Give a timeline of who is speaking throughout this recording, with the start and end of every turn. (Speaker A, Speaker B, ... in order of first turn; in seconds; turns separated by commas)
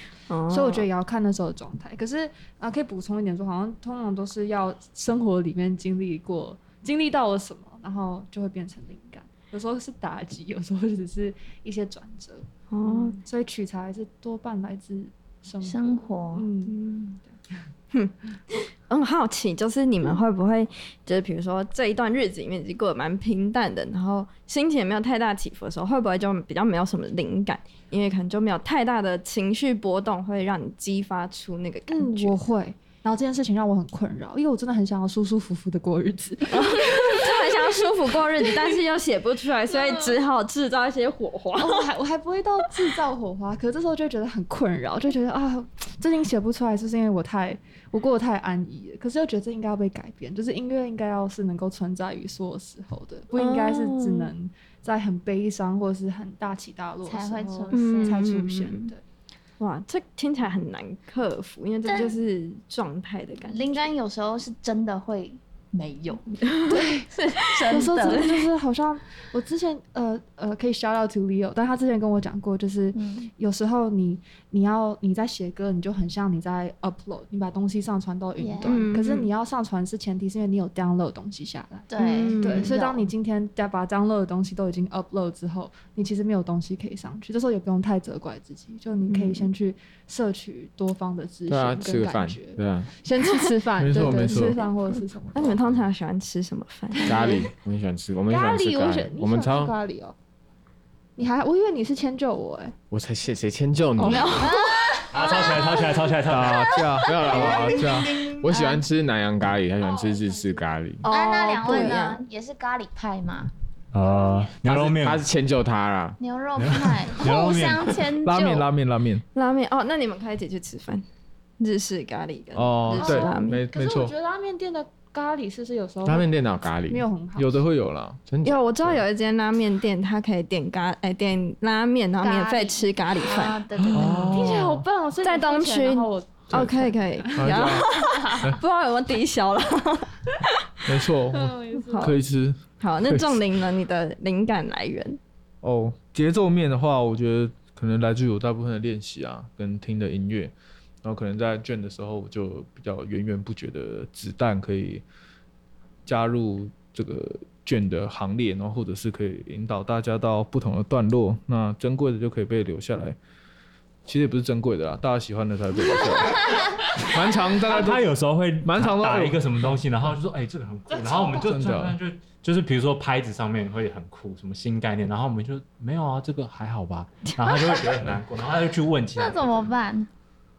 Speaker A: 0.3-0.9, Speaker B: 0.5-16.8, Speaker A: 12.7-13.2, Speaker C: 15.6-16.5, Speaker A: 16.7-17.2, Speaker A: 17.9-32.4, Speaker B: 31.9-37.8, Speaker A: 36.5-41.9, Speaker B: 38.3-38.8, Speaker B: 39.7-40.2, Speaker B: 41.6-59.0, Speaker A: 53.4-54.3, Speaker C: 57.0-58.2, Speaker A: 57.7-58.9, Speaker A: 59.6-63.9, Speaker C: 61.9-62.2, Speaker C: 63.5-68.3, Speaker A: 66.4-66.8, Speaker B: 66.7-67.1, Speaker A: 67.6-68.4, Speaker B: 67.7-95.6, Speaker C: 72.9-73.3, Speaker C: 78.4-78.8, Speaker A: 78.7-79.3, Speaker C: 81.9-83.1, Speaker A: 82.0-82.7, Speaker A: 89.1-89.5, Speaker D: 91.5-92.9, Speaker A: 93.4-94.7, Speaker E: 93.8-94.7, Speaker A: 95.3-97.5, Speaker B: 96.9-97.5, Speaker D: 97.0-99.8, Speaker B: 98.3-100.2, Speaker B: 101.2-102.8, Speaker D: 102.9-104.5, Speaker A: 104.0-105.0, Speaker C: 104.1-106.1, Speaker F: 105.1-108.5, Speaker E: 106.2-108.2, Speaker D: 107.0-111.0, Speaker C: 107.1-107.9, Speaker C: 108.4-108.8, Speaker B: 109.8-110.7, Speaker A: 111.0-112.2, Speaker C: 111.1-113.5, Speaker F: 113.9-115.2, Speaker B: 114.0-114.4, Speaker D: 114.6-116.2, Speaker C: 116.2-118.7, Speaker F: 116.6-118.1, Speaker E: 118.2-119.2, Speaker A: 119.3-121.0, Speaker A: 121.6-123.6, Speaker E: 122.5-124.1, Speaker B: 123.0-126.3, Speaker D: 123.5-124.1, Speaker D: 126.0-127.0, Speaker B: 126.9-127.6, Speaker E: 127.4-128.2, Speaker D: 128.3-129.0, Speaker A: 128.4-133.6, Speaker B: 132.2-132.9, Speaker C: 133.1-134.5, Speaker E: 133.8-134.8, Speaker B: 134.3-138.4, Speaker A: 135.2-140.7, Speaker E: 137.4-138.6, Speaker E: 140.9-143.5, Speaker B: 141.3-142.2, Speaker A: 141.9-142.2, Speaker A: 142.8-145.2, Speaker E: 145.6-155.0, Speaker E: 156.1-163.2, Speaker E: 164.1-168.1, Speaker F: 167.6-179.6, Speaker E: 168.6-169.8, Speaker E: 171.2-172.0, Speaker A: 177.4-177.8, Speaker C: 179.2-180.1